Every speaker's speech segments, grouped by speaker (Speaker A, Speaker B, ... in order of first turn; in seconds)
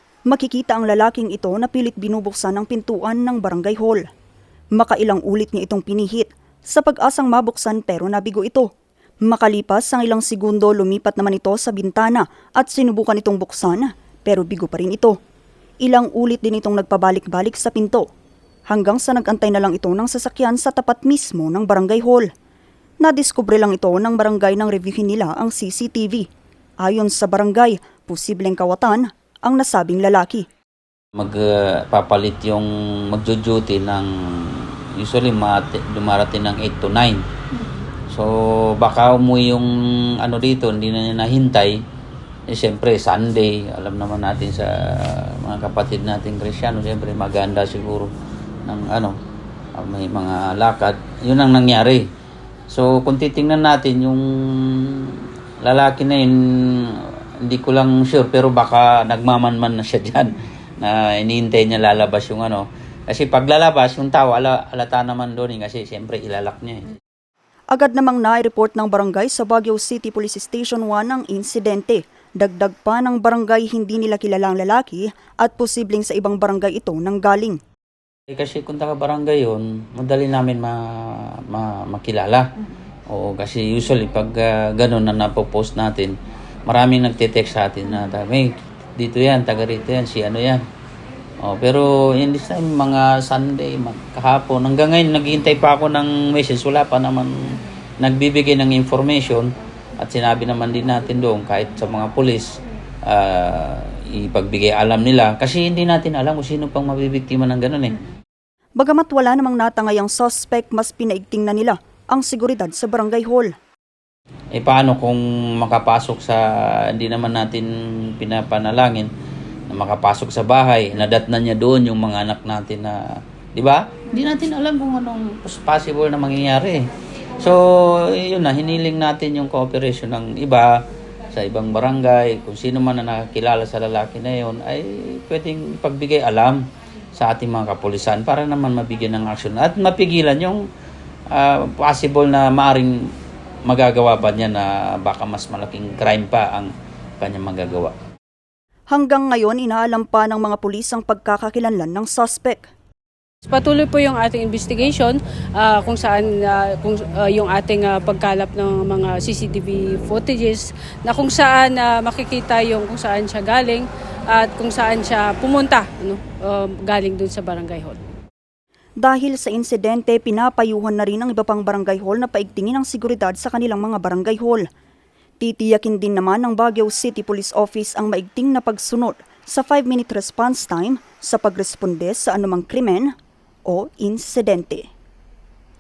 Speaker A: 0.3-4.0, 4.8-8.7, 9.3-15.2, 15.8-18.0, 18.7-22.3, 23.0-26.3, 26.8-30.4, 67.7-77.6, 108.8-113.5, 148.9-152.7, 169.0-174.7, 175.4-183.1, 183.7-184.8
Speaker B: 31.1-37.2, 38.1-41.8, 42.5-48.1, 48.6-49.1, 49.7-52.0, 52.7-66.9, 78.3-82.5, 83.1-86.1, 86.7-90.6, 91.4-102.5, 103.0-108.0, 114.5-119.1, 119.7-126.8, 127.4-136.6, 137.2-140.6, 141.3-142.9, 143.7-147.9
Speaker C: 153.4-168.0